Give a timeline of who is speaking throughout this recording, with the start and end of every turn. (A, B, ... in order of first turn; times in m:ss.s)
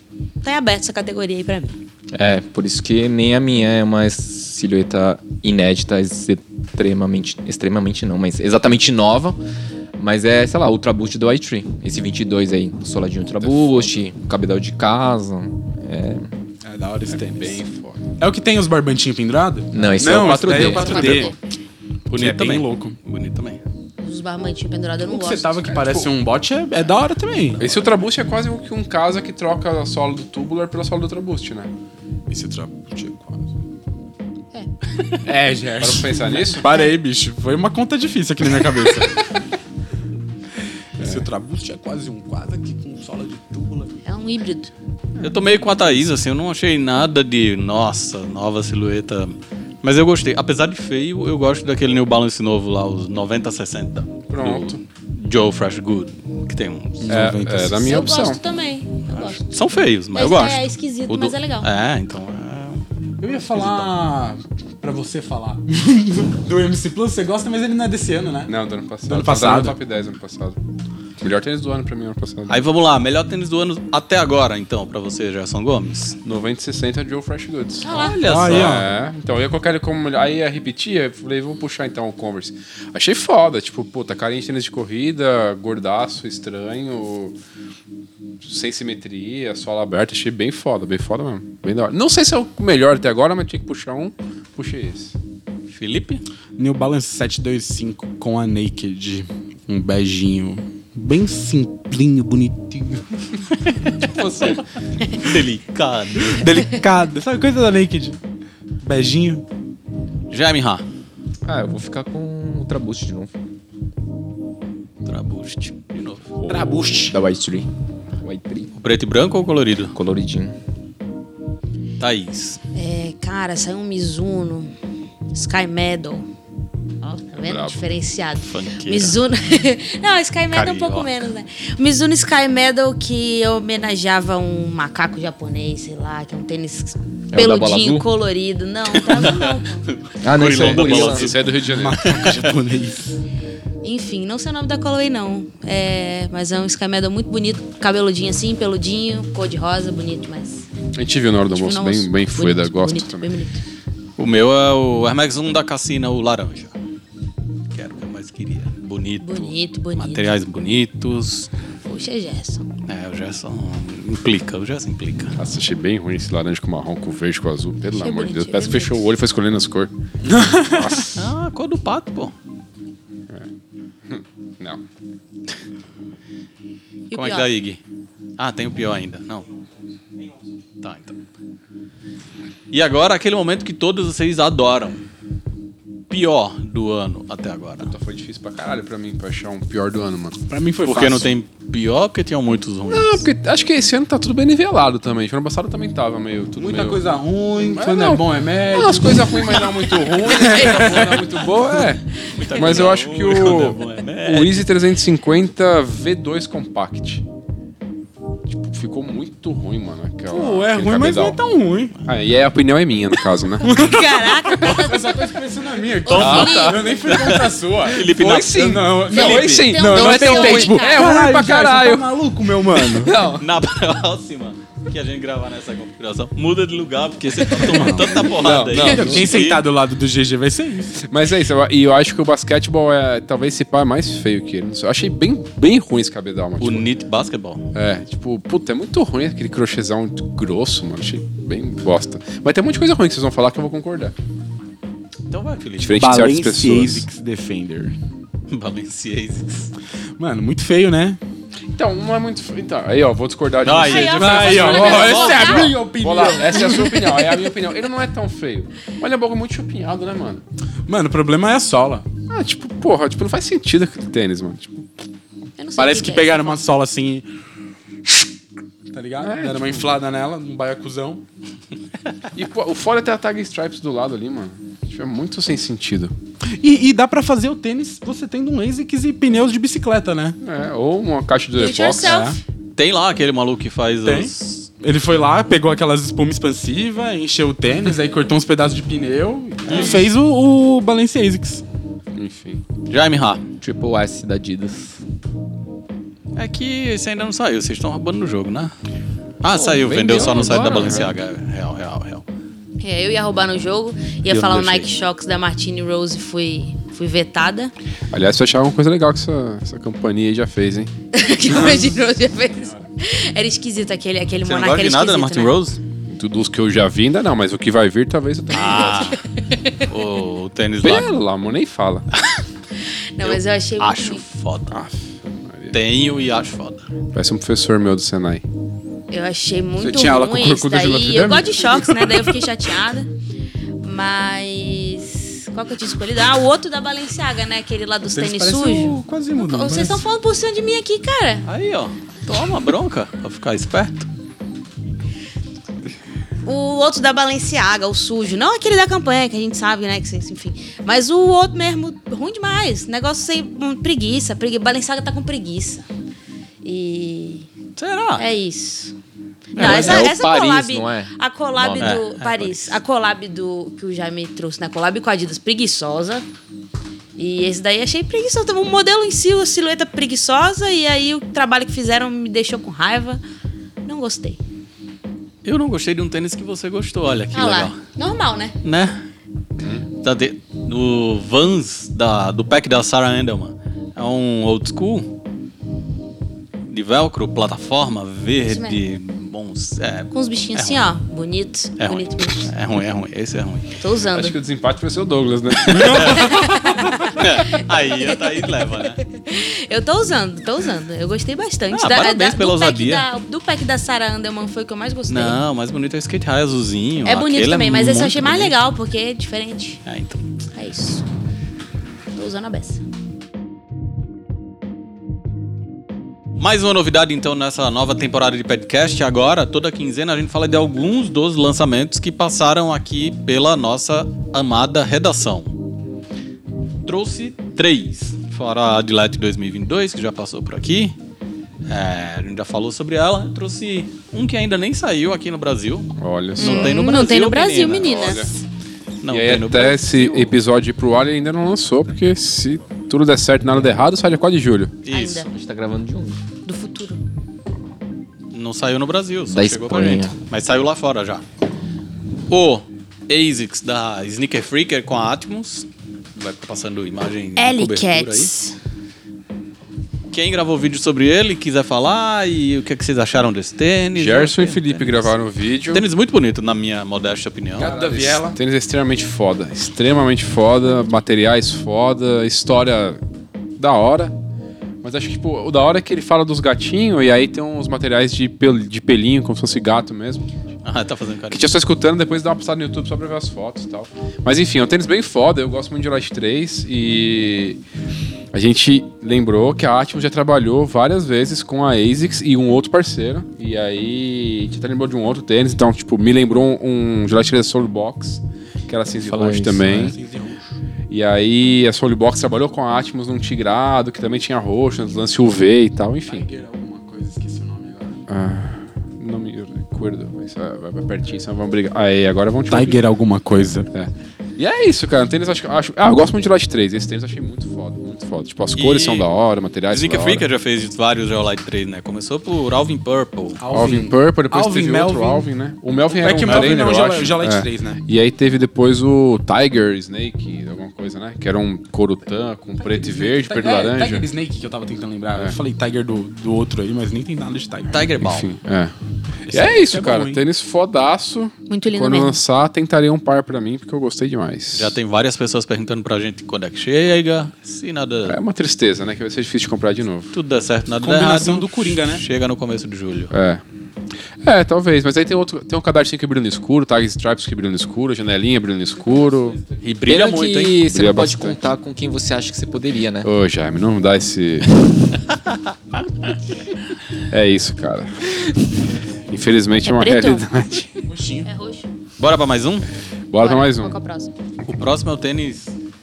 0:00.4-0:01.8 A
0:02.1-0:09.4 B
0:10.0-0:16.3 B
0:13.4-0:13.9 C
0:16.6-0:17.6 D
0:17.1-0:18.0 C
0:18.2-0:21.3 D
0:19.7-0:21.3 B
0:22.1-0:23.6 E
0:22.1-0:23.0 D
0:24.0-0:25.7 A
0:25.0-0:27.7 D
0:25.6-0:26.1 C
0:27.6-0:31.7 C
0:32.3-0:33.5 D
0:35.2-0:39.2 D
0:35.8-0:36.7 C
0:41.0-0:43.9 D
0:41.0-0:41.2 C
0:44.0-0:44.7 A
0:45.2-0:57.2 E
0:54.3-0:54.8 C
0:57.0-0:57.9 D
0:57.1-0:58.4 C
0:57.8-0:59.4 A
0:59.1-1:02.8 E
1:00.1-1:01.7 A
1:03.2-1:08.5 D
1:08.5-1:10.6 C
1:09.0-1:09.8 D
1:11.2-1:12.6 C
1:12.5-1:16.2 E
1:16.2-1:27.3 C
1:17.8-1:18.2 A
1:17.8-1:18.8 E
1:18.3-1:18.9 D
1:28.4-1:35.1 C
1:35.7-1:36.2 E
1:36.6-1:43.0 D
1:43.6-1:43.9 E
1:44.0-1:44.6 C
1:45.1-1:46.5 E
1:46.3-1:48.2 D
1:48.8-1:49.4 D
1:50.3-1:50.8 E
1:51.4-1:53.3 B
1:55.0-1:56.3 E
1:56.4-1:57.7 B
1:56.5-1:57.2 D
1:58.2-1:58.7 B
1:58.7-2:00.0 E
1:59.9-2:00.5 B
2:02.0-2:02.6 E
2:02.7-2:04.7 A
2:05.3-2:06.3 A
2:07.0-2:19.8 A
2:07.4-2:07.9 C
2:08.4-2:09.2 E
2:10.5-2:11.1 E
2:17.3-2:18.0 B
2:18.9-2:21.4 E
2:20.2-2:21.4 B
2:20.4-2:22.1 C
2:21.6-2:23.2 D
2:22.0-2:22.4 E
2:23.8-2:30.7 A
2:30.9-2:33.3 C
2:31.5-2:33.6 A
2:34.2-2:36.7 E
2:37.7-2:41.5 E
2:39.2-2:40.3 A
2:41.8-2:42.6 A
2:42.9-2:45.4 E
2:45.4-2:49.9 C
2:48.0-2:49.0 A
2:50.2-2:51.1 D
2:50.7-2:51.2 C
2:51.1-2:52.3 E
2:54.1-2:54.8 C
2:57.1-2:57.5 A
2:57.1-2:57.8 E
2:58.4-2:59.5 E
3:00.8-3:01.2 E
3:02.7-3:05.0 E
3:06.1-3:07.9 E
3:07.8-3:10.4 C
3:10.5-3:11.3 D
3:10.8-3:13.3 E
3:12.9-3:17.0 C
3:16.6-3:21.2 D
3:17.6-3:27.2 C
3:20.8-3:21.2 A
3:22.2-3:24.7 E
3:28.5-3:31.4 C
3:30.3-3:32.0 D
3:32.0-3:33.8 C
3:33.6-3:43.1 D
3:33.6-3:35.3 A
3:36.0-3:37.2 A
3:36.1-3:39.7 E
3:36.1-3:37.0 C
3:38.0-3:42.0 C
3:39.1-3:41.2 A
3:42.8-3:43.4 C
3:43.3-3:49.6 E
3:47.6-3:48.2 D
3:47.7-3:49.4 C
3:48.7-3:51.0 D
3:51.0-3:56.9 C
3:56.6-3:57.7 E
3:57.7-4:04.1 C
4:05.3-4:06.0 E
4:05.8-4:07.1 C
4:06.0-4:07.9 D
4:08.5-4:09.7 E
4:10.2-4:11.2 D
4:11.8-4:20.4 C
4:13.6-4:15.7 E
4:13.8-4:15.8 A
4:14.2-4:17.3 D
4:20.9-4:22.0 D
4:22.3-4:24.8 C
4:25.6-4:26.7 A
4:25.8-4:27.2 D
4:28.9-4:31.2 D
4:29.2-4:29.9 C
4:32.3-4:36.1 C
4:36.6-4:40.4 D
4:40.4-4:42.2 C
4:41.5-4:42.4 A
4:42.0-4:42.4 D
4:42.8-4:44.7 E
4:44.0-4:51.6 D
4:49.7-4:50.0 E
4:49.7-4:50.0 C
4:52.1-4:52.6 C
4:52.9-4:53.4 E
4:53.6-4:55.0 B
4:56.3-4:58.7 E
4:59.4-5:02.2 E
4:59.6-5:01.1 B
4:59.6-5:01.1 C
5:02.8-5:07.7 A
5:04.3-5:04.8 E
5:08.1-5:10.9 C
5:11.1-5:15.6 A
5:14.4-5:15.8 E
5:16.1-5:19.1 C
5:18.5-5:19.2 E
5:18.7-5:19.8 A
5:19.9-5:21.1 E
5:20.8-5:22.1 C
5:23.2-5:24.2 A
5:23.2-5:24.8 E
5:24.7-5:25.7 C
5:25.7-5:26.8 E
5:27.1-5:28.4 C
5:29.1-5:33.1 A
5:29.8-5:32.3 D
5:33.8-5:41.4 A
5:38.1-5:40.0 D
5:41.4-5:44.1 E
5:46.4-5:55.8 A
5:56.6-5:57.5 A
5:57.8-5:58.3 E
5:58.2-5:58.9 A
5:59.5-6:06.2 A
5:59.5-6:00.2 E
5:59.6-6:02.1 B
6:01.8-6:02.8 E
6:07.2-6:13.2 A
6:13.8-6:14.4 A
6:15.4-6:17.8 E
6:17.3-6:18.6 A
6:18.6-6:19.0 E
6:19.6-6:19.9 C
6:20.0-6:25.1 E
6:26.7-6:30.8 E
6:28.5-6:28.8 A
6:30.1-6:32.5 A
6:31.8-6:33.7 E
6:33.8-6:34.4 A
6:34.1-6:36.4 C
6:35.7-6:36.4 E
6:36.0-6:45.4 A
6:37.2-6:39.0 E
6:41.7-6:43.1 E
6:45.1-6:48.6 E
6:47.0-6:49.8 A
6:49.8-6:50.2 E
6:50.5-6:51.0 A
6:52.1-6:52.8 A
6:56.4-7:05.5 E
7:06.8-7:11.0 E
7:11.7-7:18.2 E
7:16.0-7:16.8 C
7:16.4-7:18.3 A
7:17.7-7:18.3 C
7:19.0-7:20.3 E
7:19.1-7:24.8 C
7:24.8-7:25.3 E
7:24.9-7:25.3 A
7:25.2-7:26.2 B
7:26.4-7:27.0 A
7:28.3-7:31.2 E
7:29.3-7:30.1 B
7:32.3-7:38.3 E
7:37.4-7:38.6 A
7:40.1-7:45.1 E
7:44.0-7:45.8 C
7:45.7-7:47.9 E
7:47.6-7:48.4 D
7:47.6-7:53.0 C
7:53.6-7:54.1 C
7:54.8-8:00.2 C
8:00.6-8:01.4 E
8:01.3-8:07.6 C
8:08.3-8:20.0 C
8:19.0-8:19.9 B
8:19.2-8:20.4 D
8:20.9-8:26.3 C
8:26.0-8:28.0 D
8:28.1-8:32.8 C
8:32.5-8:33.7 D
8:33.7-8:40.3 C
8:38.6-8:39.1 E
8:39.7-8:43.4 E
8:43.4-8:45.3 D
8:43.5-8:54.0 C
8:45.9-8:47.8 D
8:46.2-8:46.5 E
8:52.6-8:58.0 D
8:57.7-8:58.3 E
8:58.0-8:58.7 C
8:59.3-9:00.2 D
8:59.3-9:04.8 C
9:01.5-9:02.2 A
9:04.5-9:08.2 E
9:08.0-9:10.1 C
9:10.1-9:13.1 E
9:10.8-9:12.0 D
9:13.1-9:13.4 C
9:14.2-9:19.4 C
9:18.8-9:19.5 D
9:19.6-9:20.6 E
9:19.8-9:23.1 B
9:20.6-9:21.4 C
9:23.0-9:24.5 C
9:27.1-9:28.4 C
9:29.1-9:30.8 C
9:29.6-9:30.3 A
9:30.9-9:31.3 D
9:31.2-9:31.7 A
9:32.0-9:32.7 E
9:33.1-9:33.8 C
9:33.2-9:34.1 A
9:34.4-9:35.5 E